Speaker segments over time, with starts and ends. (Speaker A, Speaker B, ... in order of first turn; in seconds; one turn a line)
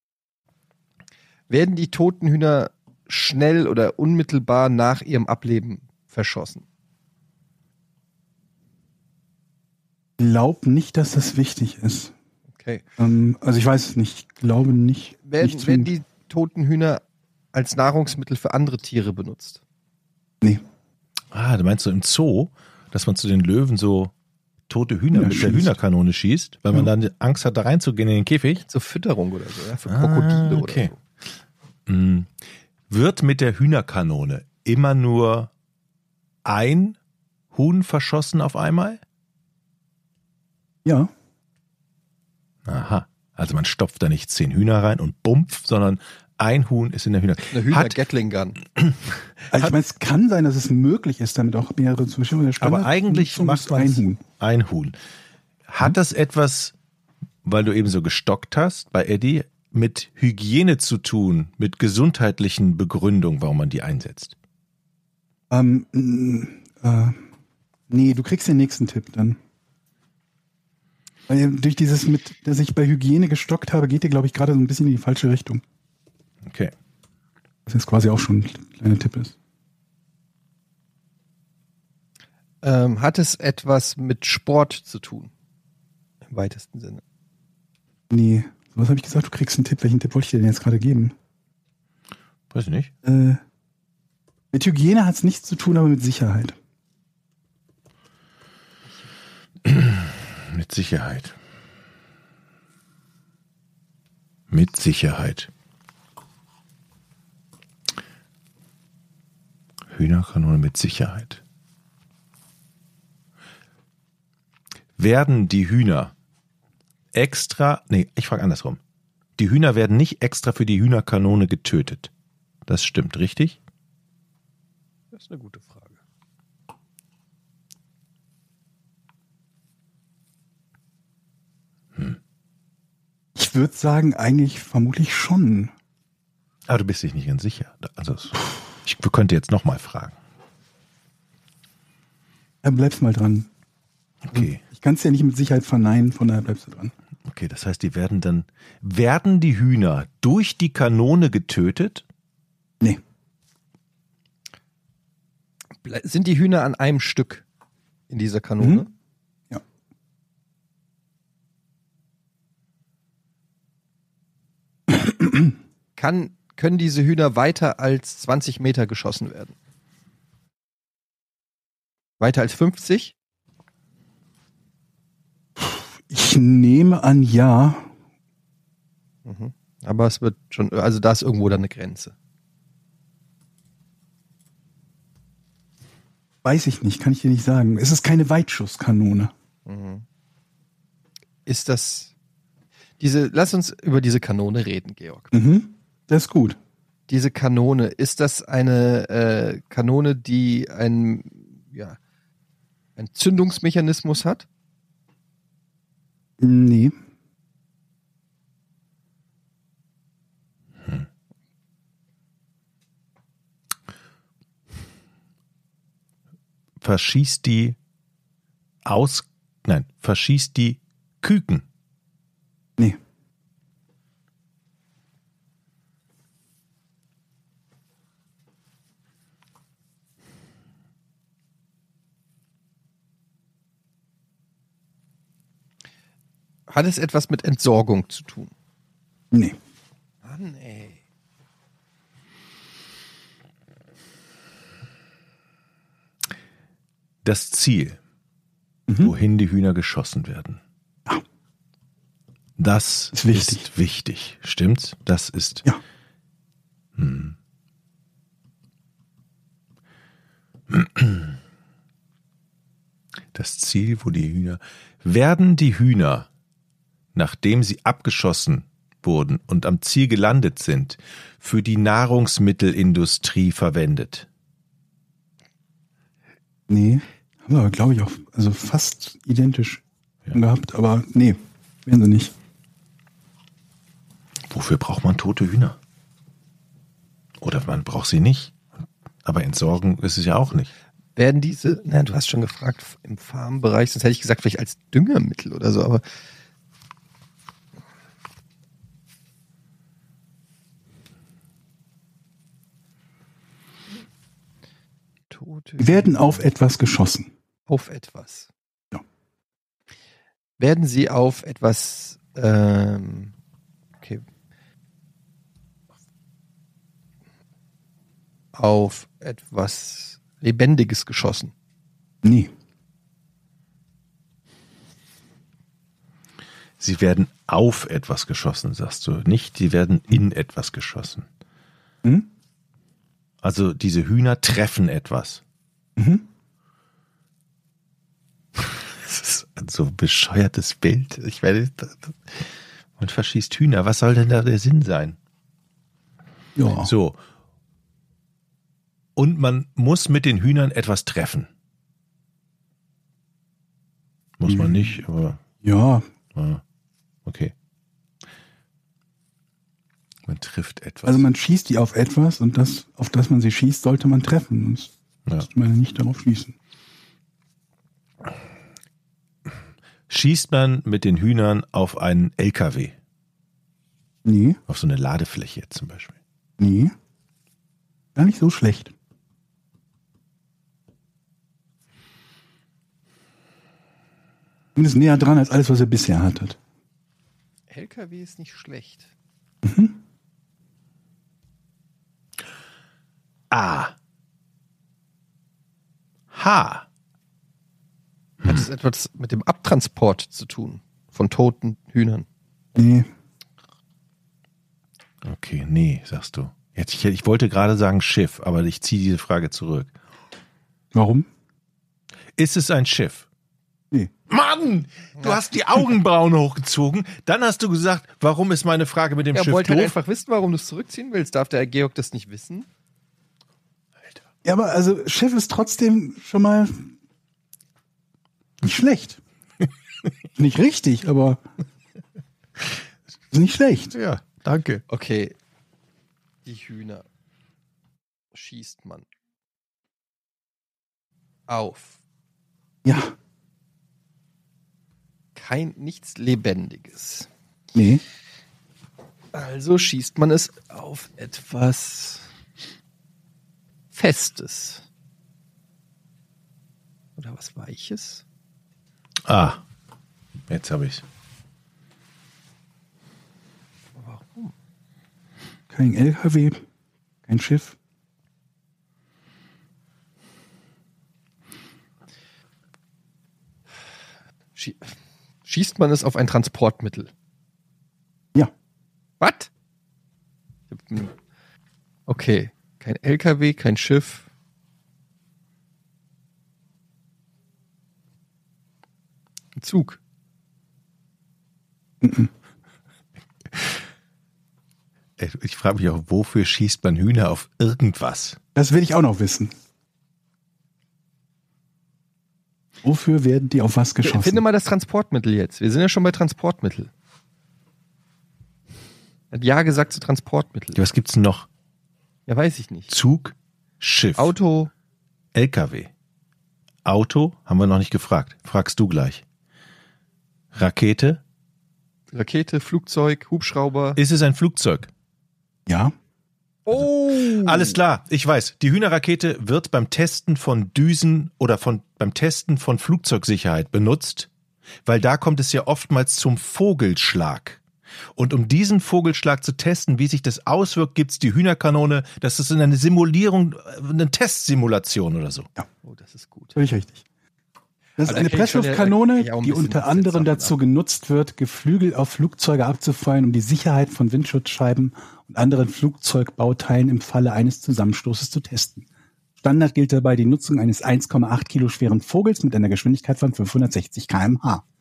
Speaker A: 1.5-6.6
Speaker B: 10.2-12.1
Speaker A: 12.6-12.8
Speaker B: 13.0-15.9
Speaker A: 15.3-17.0
Speaker A: 17.5-19.6
Speaker C: 21.3-24.1
Speaker C: 24.7-28.6
Speaker B: 25.1-25.8
Speaker A: 28.6-31.0
Speaker C: 29.9-30.9
Speaker C: 31.9-32.3
Speaker C: 32.9-35.5
Speaker C: 36.5-37.0
Speaker C: 37.5-39.0
Speaker B: 40.9-41.1
Speaker C: 42.7-48.0
Speaker A: 47.5-48.6
Speaker B: 49.5-54.2
Speaker C: 52.6-55.0
Speaker C: 55.7-56.7
Speaker C: 57.5-64.3
Speaker B: 65.5-67.2
Speaker B: 67.9-69.4
Speaker B: 71.3-75.6
Speaker C: 76.5-76.7
Speaker B: 77.7-79.3
Speaker A: 82.6-85.3
Speaker A: 86.3-87.0
Speaker B: 88.1-91.1
Speaker C: 92.5-92.9
Speaker B: 93.0-93.4
Speaker B: 94.5-96.6
Speaker C: 99.7-101.3
Speaker C: 104.5-105.5
Speaker C: 109.9-111.4
Speaker C: 115.0-116.1
Speaker C: 117.1-118.8
Speaker C: 119.4-122.1
Speaker C: 122.7-123.6
Speaker A: 125.1-126.0
Speaker B: 133.3-135.7
Speaker C: 136.7-140.2
Speaker B: 142.6-143.5
Speaker C: 144.2-144.6
Speaker B: 144.3-146.9
Speaker C: 147.3-152.0
Speaker A: 155.8-157.4
Speaker A: 158.1-158.9
Speaker B: 164.9-165.6
Speaker A: 166.0-169.6
Speaker A: 172.2-173.1
Speaker B: 175.6-177.9
Speaker A: 179.2-182.1
Speaker B: 186.4-189.3
Speaker A: 189.7-190.1
Speaker A: 191.5-192.1
Speaker A: 193.0-195.3
Speaker B: 195.3-196.6
Speaker A: 197.1-202.0
Speaker A: 203.0-204.5
Speaker B: 206.4-206.9
Speaker C: 216.8-217.8
Speaker C: 218.8-221.6
Speaker A: 236.7-238.5
Speaker A: 240.2-241.0
Speaker C: 247.2-248.0
Speaker B: 248.9-249.1
Speaker C: 249.0-250.6
Speaker C: 252.6-255.7
Speaker B: 253.1-253.6
Speaker C: 257.0-257.4
Speaker C: 260.7-261.4
Speaker C: 263.3-266.3
Speaker C: 267.1-274.3
Speaker B: 276.7-279.8
Speaker B: 280.3-282.3
Speaker C: 284.5-285.8
Speaker C: 287.4-288.6
Speaker C: 289.2-290.7
Speaker A: 291.2-296.0
Speaker A: 305.3-306.4
Speaker B: 305.8-307.3
Speaker A: 307.7-308.5
Speaker A: 310.6-313.3
Speaker A: 318.5-321.5
Speaker B: 322.2-322.5
Speaker C: 326.8-331.3
Speaker C: 333.4-335.4
Speaker B: 336.0-336.3
Speaker C: 338.6-345.2
Speaker B: 346.6-346.9
Speaker C: 346.8-347.2
Speaker C: 349.2-351.5
Speaker C: 354.4-355.4
Speaker B: 354.5-354.9
Speaker B: 355.6-356.0
Speaker C: 356.4-356.6
Speaker C: 357.3-357.5
Speaker C: 360.3-361.2
Speaker B: 361.1-364.9
Speaker B: 365.4-366.6
Speaker C: 370.1-372.9
Speaker B: 374.2-374.6
Speaker C: 374.7-376.1
Speaker B: 376.6-376.9
Speaker B: 378.2-378.9
Speaker B: 384.8-386.6
Speaker A: 387.7-389.1
Speaker B: 389.6-390.0
Speaker C: 393.5-393.9
Speaker C: 396.3-396.9
Speaker A: 398.4-402.3
Speaker B: 402.8-403.1
Speaker C: 405.2-409.9
Speaker B: 410.9-411.3
Speaker C: 412.4-413.3
Speaker C: 414.3-419.9
Speaker A: 419.3-422.7
Speaker B: 424.4-426.9
Speaker B: 428.6-429.2
Speaker B: 430.4-431.4
Speaker B: 433.3-433.9
Speaker C: 433.9-434.8
Speaker A: 434.9-435.4
Speaker A: 436.4-437.1
Speaker A: 438.3-439.1
Speaker A: 441.5-442.0
Speaker B: 442.8-443.1
Speaker A: 445.4-447.3
Speaker B: 447.7-448.0
Speaker A: 449.3-452.3
Speaker A: 453.9-454.9
Speaker A: 457.2-458.2
Speaker C: 459.3-459.6
Speaker C: 460.5-461.0
Speaker A: 464.0-464.5
Speaker B: 465.7-466.6
Speaker B: 467.3-467.8
Speaker A: 474.6-477.1
Speaker A: 479.2-479.5
Speaker A: 480.7-481.1
Speaker A: 482.1-484.3
Speaker A: 489.6-490.0
Speaker B: 492.0-492.3
Speaker C: 493.5-493.8
Speaker C: 495.2-498.4
Speaker B: 498.6-499.5
Speaker B: 502.8-504.4
Speaker A: 504.0-506.9
Speaker A: 509.3-510.8
Speaker C: 510.8-511.5
Speaker A: 512.3-512.9
Speaker C: 512.9-514.3
Speaker A: 514.2-514.7
Speaker C: 515.4-515.9
Speaker C: 516.9-519.2
Speaker C: 520.5-521.2
Speaker A: 522.1-524.0
Speaker C: 524.0-524.9
Speaker B: 525.7-525.9
Speaker A: 526.7-527.8
Speaker C: 526.7-534.3
Speaker C: 534.9-537.6
Speaker C: 538.2-545.5
Speaker A: 545.8-546.6
Speaker B: 546.5-547.0
Speaker B: 548.0-558.9
Speaker A: 548.0-550.6
Speaker B: 559.4-564.6